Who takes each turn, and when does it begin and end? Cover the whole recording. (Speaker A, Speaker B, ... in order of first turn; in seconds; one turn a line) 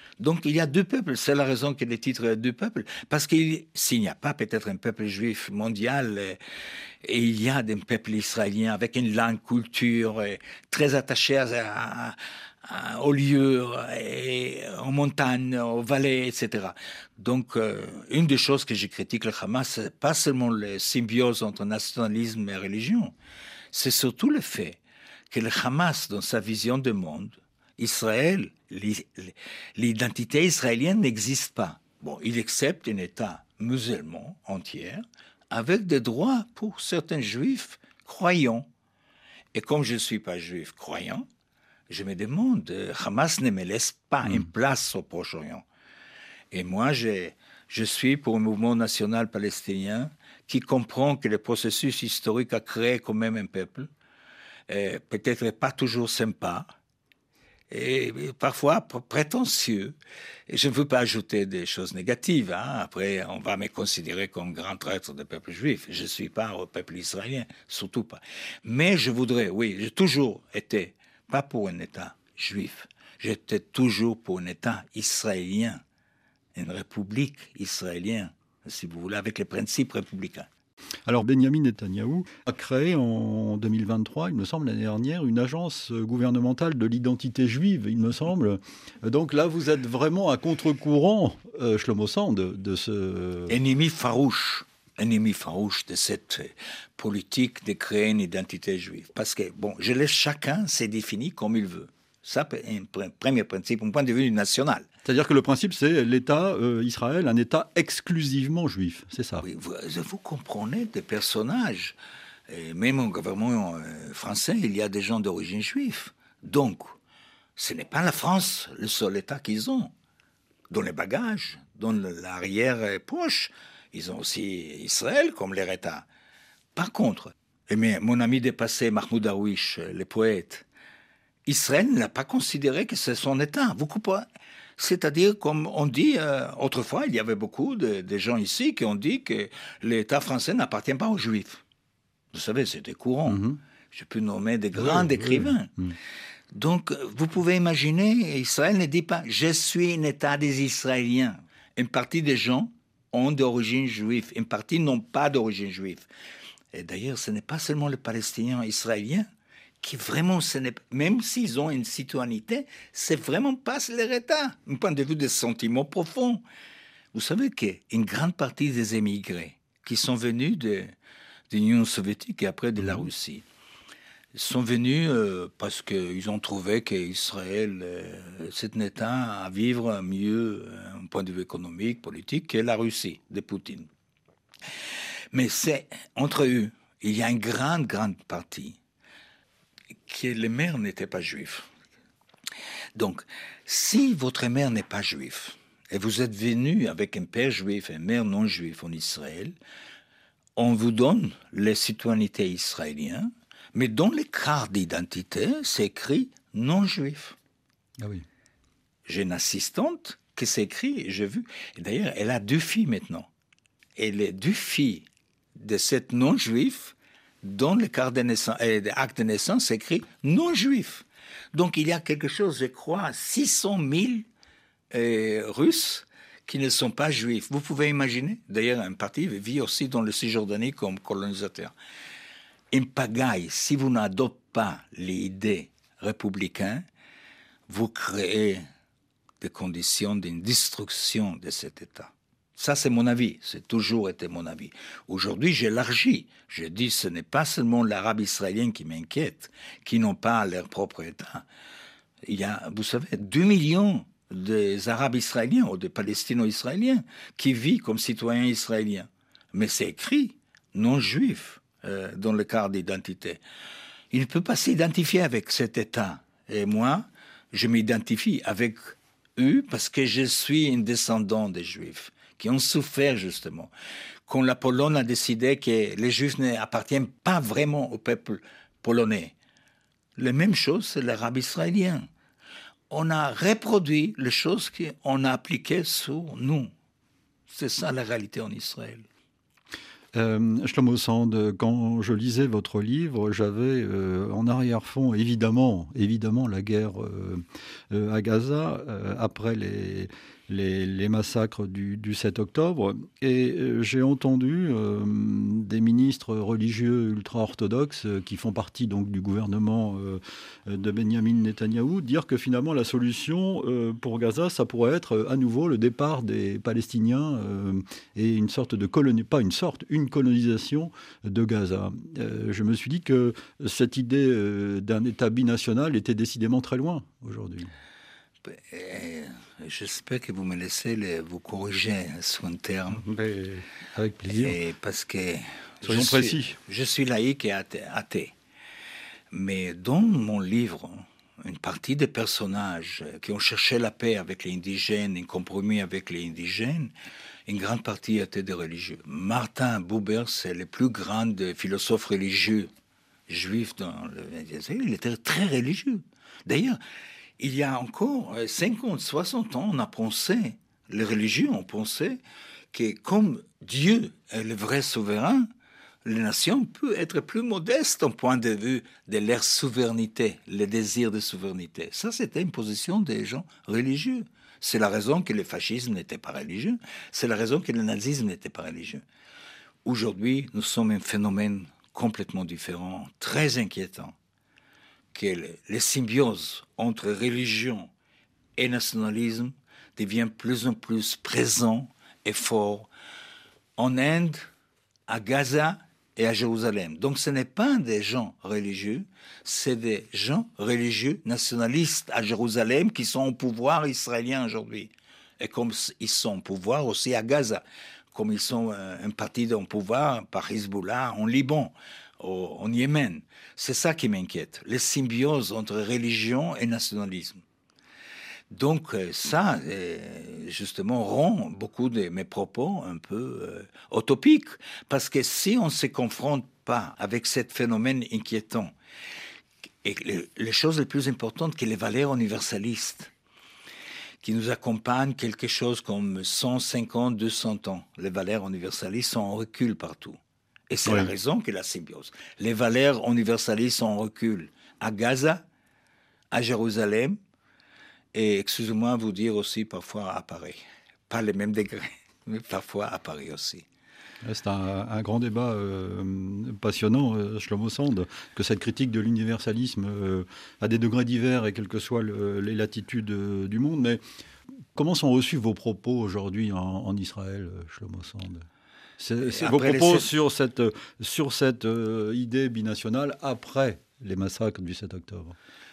Speaker A: 0.2-6.4
Speaker A: 7.0-23.1
Speaker A: 23.7-38.7
Speaker A: 39.5-41.3
Speaker A: 41.9-45.6
Speaker A: 46.5-53.9
Speaker A: 54.7-56.7
Speaker A: 57.7-60.0
Speaker A: 60.5-75.8
Speaker A: 76.5-80.5
Speaker B: 81.1-93.6
Speaker A: 93.5-104.9
Speaker B: 105.0-109.5
Speaker A: 109.4-112.0
Speaker A: 112.5-117.0
Speaker A: 117.6-119.9
Speaker A: 120.7-126.1
Speaker A: 126.8-130.7
Speaker A: 131.5-141.6
Speaker A: 142.3-145.7
Speaker B: 143.3-143.6
Speaker B: 144.8-146.0
Speaker A: 146.5-156.1
Speaker A: 156.7-159.3
Speaker A: 159.8-166.4
Speaker A: 167.1-170.9
Speaker A: 171.5-173.4
Speaker A: 174.3-183.9
Speaker A: 185.3-188.8
Speaker A: 190.1-191.7
Speaker A: 193.0-199.6
Speaker A: 200.6-207.4
Speaker B: 208.0-208.3
Speaker A: 209.1-213.3
Speaker A: 214.0-224.3
Speaker A: 224.9-231.7
Speaker A: 232.7-236.8
Speaker A: 237.7-238.6
Speaker A: 239.4-251.5
Speaker A: 252.3-263.4
Speaker A: 264.1-273.7
Speaker A: 274.3-279.3
Speaker A: 280.2-282.1
Speaker A: 282.9-286.7
Speaker A: 287.5-289.1
Speaker B: 290.1-327.7
Speaker A: 328.4-333.1
Speaker B: 332.9-334.6
Speaker A: 334.3-338.3
Speaker B: 335.8-336.6
Speaker A: 339.3-346.9
Speaker A: 347.5-352.7
Speaker A: 353.3-356.8
Speaker A: 357.4-362.2
Speaker A: 362.7-365.5
Speaker A: 366.0-379.0
Speaker A: 379.8-384.2
Speaker A: 385.1-387.9
Speaker A: 388.6-392.9
Speaker A: 393.8-394.5
Speaker A: 395.1-417.4
Speaker A: 418.5-428.7
Speaker A: 429.8-433.1
Speaker A: 434.2-440.2
Speaker A: 440.7-445.4
Speaker B: 440.9-441.1
Speaker A: 446.3-447.2
Speaker A: 448.1-453.7
Speaker B: 454.2-464.0
Speaker B: 464.8-468.5
Speaker B: 469.0-475.4
Speaker A: 469.2-470.1